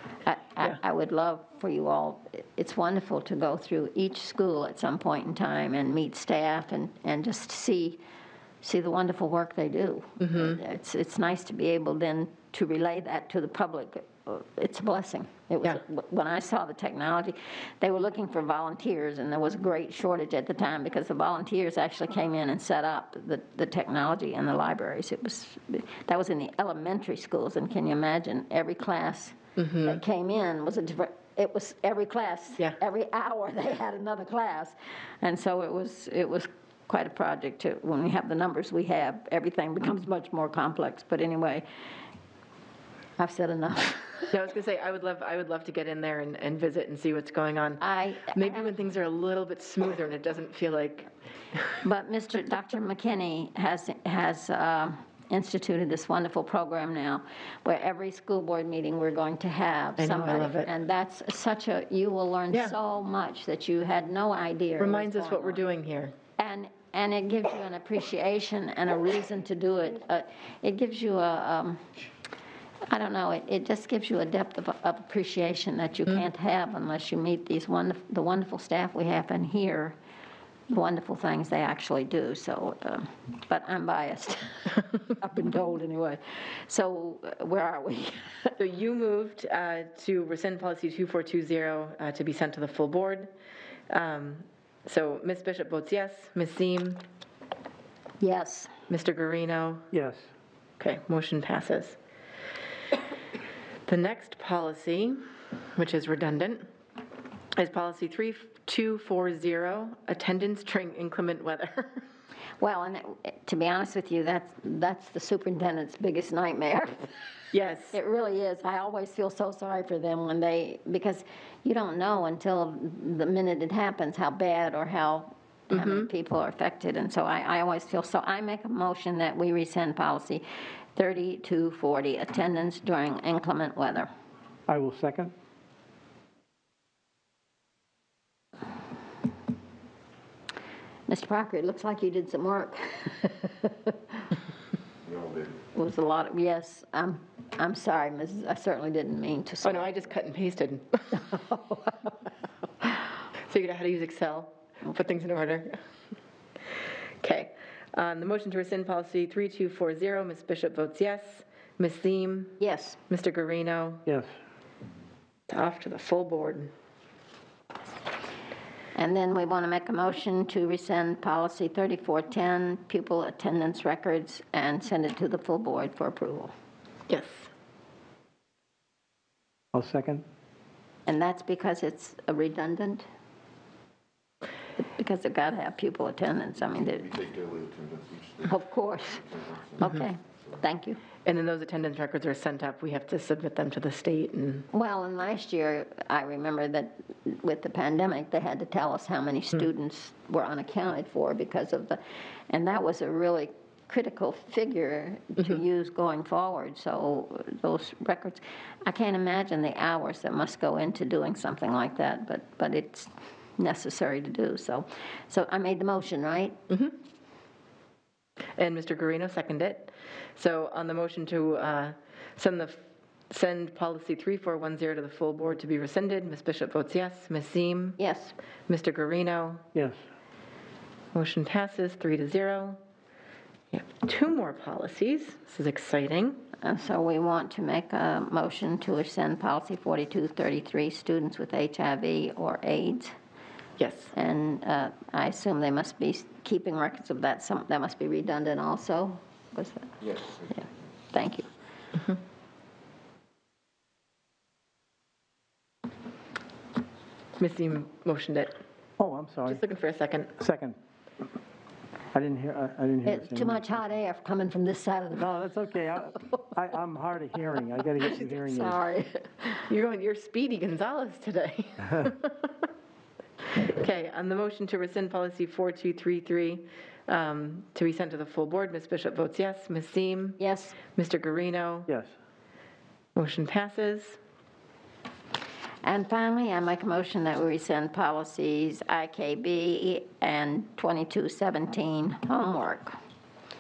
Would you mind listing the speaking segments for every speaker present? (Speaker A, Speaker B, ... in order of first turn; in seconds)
Speaker A: 0.2-8.0, 8.6-41.7, 43.2-44.3, 47.8-48.7, 51.8-65.6, 66.4-71.8, 72.9-80.0, 80.7-88.5, 98.2-98.7, 112.6-117.1, 117.9-130.4, 131.0-134.1, 141.1-143.9, 145.7-150.0, 151.2-152.1, 162.6-163.0, 168.9-176.5, 181.1-183.0, 184.8-187.1, 188.5-189.2, 189.8-191.0, 194.7-216.6, 228.0-228.3, 236.6-243.1, 244.1-250.0, 250.5-251.5, 263.1-265.3, 268.1-269.7, 280.4-280.8, 285.8-292.9
Speaker B: 10.2-10.6, 29.6-30.0, 44.3-51.1, 60.0-60.7, 64.8-66.2, 88.6-93.3, 93.9-97.0, 98.9-99.9, 100.8-102.0, 103.9-105.2, 105.8-106.7, 107.5-112.0, 117.5-118.0, 125.7-126.1, 149.6-151.3, 153.4-155.8, 157.2-162.6, 163.1-164.0, 165.5-166.7, 177.1-177.5, 191.3-194.7, 216.7-216.9, 218.6-228.0, 228.7-229.6, 231.1-232.8, 233.7-236.4, 243.8-244.1, 257.4-258.6, 259.5-260.3, 269.7-272.7, 273.6-280.4, 280.9-281.9, 283.2-284.2
Speaker C: 99.9-100.3, 134.7-135.3, 164.1-164.3, 179.7-180.2, 259.0-259.6, 260.4-260.8, 262.1-263.6, 265.1-268.8, 281.9-282.1
Speaker D: 145.1-145.6, 186.9-190.5, 250.0-250.4